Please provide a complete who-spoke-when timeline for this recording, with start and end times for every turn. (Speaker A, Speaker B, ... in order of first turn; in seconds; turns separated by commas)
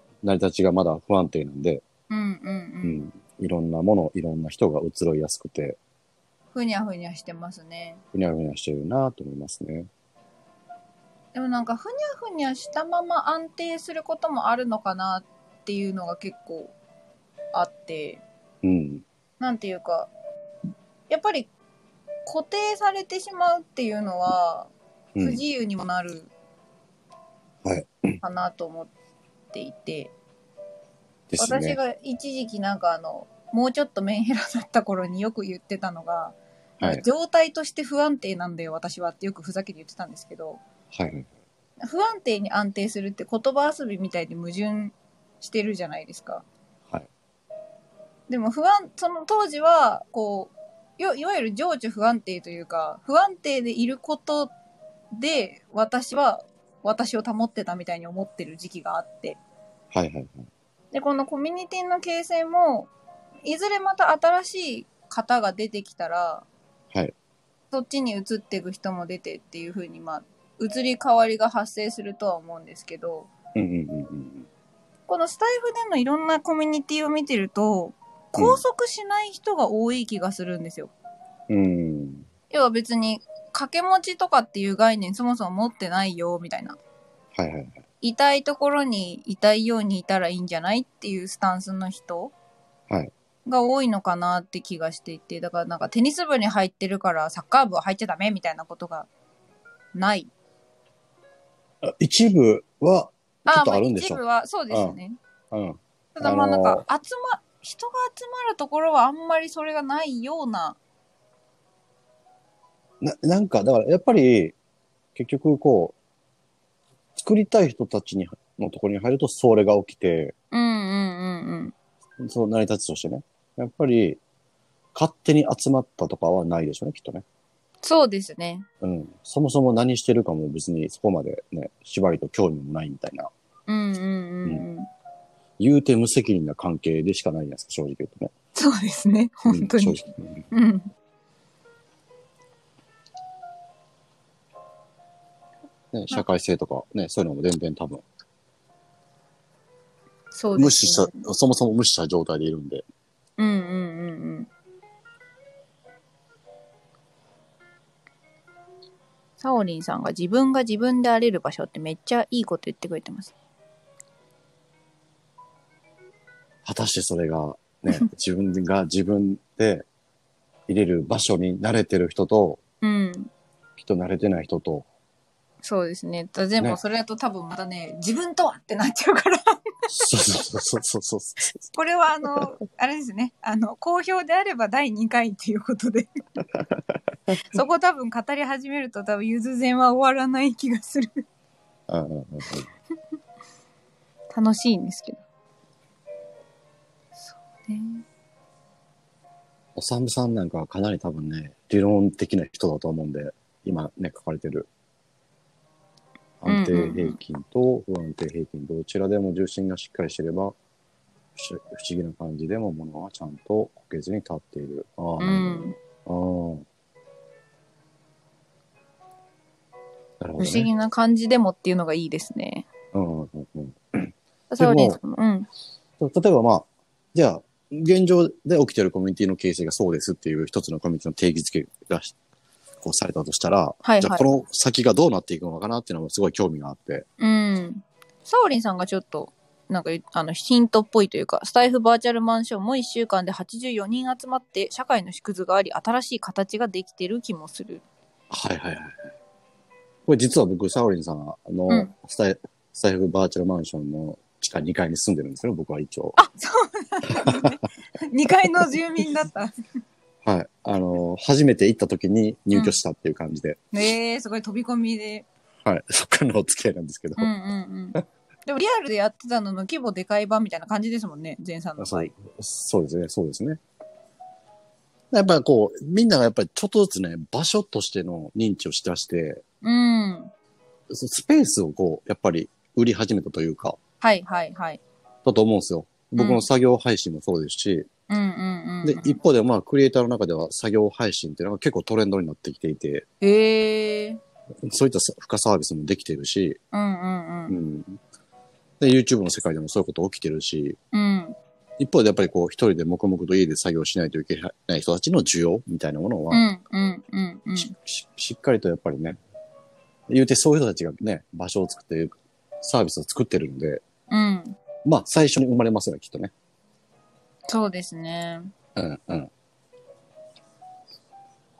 Speaker A: 0.2-1.8, Speaker B: 2.1-3.0, Speaker A: 2.8-5.8, Speaker B: 6.5-8.0, Speaker A: 8.1-9.9, Speaker B: 11.3-16.7, Speaker B: 17.5-18.2, Speaker A: 18.6-19.0, Speaker B: 19.4-20.1, Speaker B: 21.1-21.5, Speaker B: 22.2-26.3, Speaker A: 25.1-25.4, Speaker A: 27.6-28.2, Speaker B: 28.2-28.9, Speaker B: 29.5-30.1, Speaker A: 31.3-31.8, Speaker B: 31.4-40.6, Speaker A: 40.9-41.3, Speaker B: 41.8-46.4, Speaker B: 48.3-54.5, Speaker B: 55.1-59.4, Speaker A: 59.9-60.5, Speaker B: 60.9-62.9, Speaker B: 63.4-66.5, Speaker B: 67.7-73.3, Speaker A: 73.5-74.5, Speaker B: 75.1-80.9, Speaker A: 78.4-78.6, Speaker A: 81.5-82.3, Speaker B: 82.5-86.8, Speaker A: 87.3-87.8, Speaker B: 88.0-92.3, Speaker B: 93.5-99.1, Speaker B: 99.9-100.3, Speaker A: 101.8-105.0, Speaker B: 103.5-105.2, Speaker A: 105.5-106.8, Speaker B: 106.2-110.8, Speaker A: 113.0-114.5, Speaker A: 115.1-115.9, Speaker A: 117.2-120.3, Speaker B: 120.5-121.7, Speaker A: 122.2-124.2, Speaker A: 124.9-127.2, Speaker B: 127.8-128.7, Speaker A: 128.8-133.3, Speaker B: 133.7-134.9, Speaker A: 135.6-138.3, Speaker B: 138.5-140.0, Speaker A: 139.5-140.5, Speaker B: 140.5-140.9, Speaker A: 145.9-148.0, Speaker B: 150.3-151.2, Speaker A: 150.6-152.8, Speaker B: 153.4-154.5, Speaker B: 159.4-163.3, Speaker A: 166.6-169.9, Speaker A: 170.7-172.6, Speaker B: 172.8-173.3, Speaker A: 173.8-174.9, Speaker B: 175.6-179.6, Speaker A: 179.9-181.6, Speaker B: 181.7-186.1, Speaker B: 187.5-191.2, Speaker A: 191.9-192.7, Speaker B: 194.3-195.2, Speaker B: 197.2-198.0, Speaker A: 199.8-204.7, Speaker A: 206.4-210.6, Speaker B: 206.5-207.2, Speaker A: 211.4-216.6, Speaker B: 215.2-215.8, Speaker A: 220.2-220.7, Speaker B: 220.4-222.7, Speaker A: 222.9-225.0, Speaker B: 224.5-225.5, Speaker A: 226.0-232.1, Speaker A: 232.8-237.1, Speaker B: 233.8-234.3, Speaker B: 237.2-247.8, Speaker A: 248.3-249.1, Speaker A: 250.1-256.2, Speaker B: 256.2-259.5, Speaker A: 257.1-257.5, Speaker A: 260.2-263.6, Speaker B: 263.7-265.3, Speaker A: 265.6-267.3, Speaker B: 267.2-272.1, Speaker A: 271.8-273.6, Speaker A: 275.1-279.4, Speaker B: 279.6-280.3, Speaker A: 280.9-283.8, Speaker B: 284.0-284.8, Speaker A: 285.2-287.9, Speaker B: 286.2-286.4, Speaker B: 288.1-289.2, Speaker A: 288.8-293.1, Speaker B: 293.2-294.2, Speaker A: 294.6-296.6, Speaker B: 296.7-297.6, Speaker A: 297.5-298.0, Speaker A: 298.8-300.8, Speaker B: 300.9-301.4, Speaker A: 301.8-306.4, Speaker B: 306.3-307.7, Speaker A: 307.6-309.2, Speaker A: 310.1-313.8, Speaker B: 314.1-314.6, Speaker A: 314.8-316.3, Speaker B: 317.5-318.5, Speaker A: 318.7-319.3